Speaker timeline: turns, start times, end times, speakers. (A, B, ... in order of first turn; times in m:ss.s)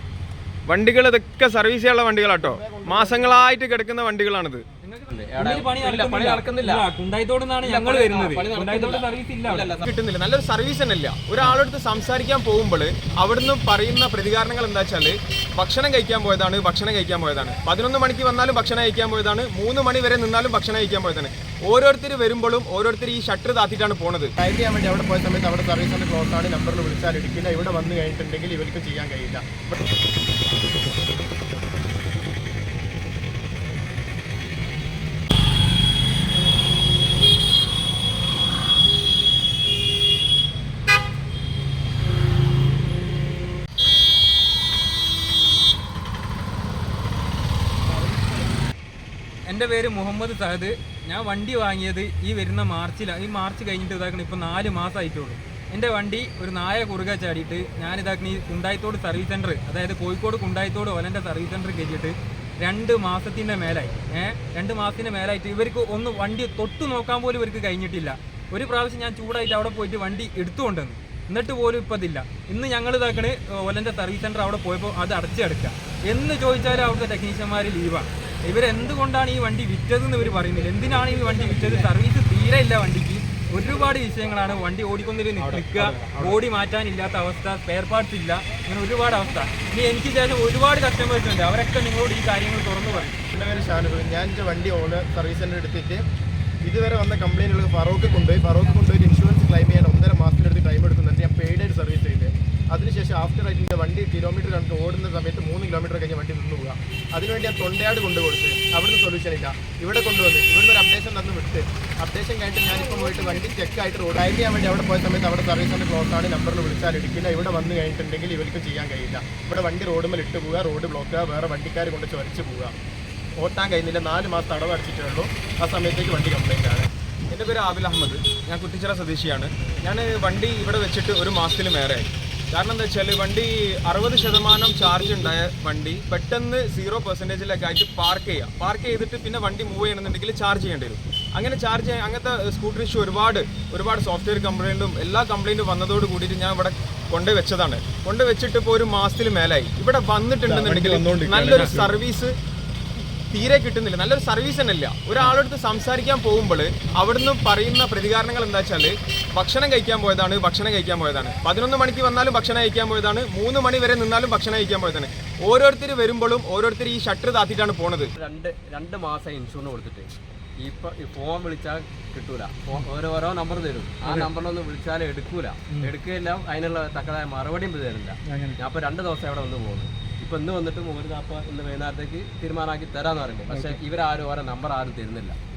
0:00.7-0:04.6 A
0:02.4-0:03.5 B
0:04.8-0:09.8 C
0:05.1-0:06.8 D
0:07.6-0:09.8 D
0:09.8-0:24.3 A
0:24.4-0:29.8 B
0:49.5-1:33.2 C
1:25.4-1:26.1 D
1:33.3-1:36.0 B
1:36.6-2:02.7 B
2:03.4-2:06.8 B
2:07.3-2:32.3 A
2:30.4-2:32.0 B
2:33.3-2:48.1 A
2:48.2-2:50.1 D
2:50.6-3:05.4 D
2:54.0-2:54.3 C
2:58.2-2:58.6 C
3:03.5-3:03.8 C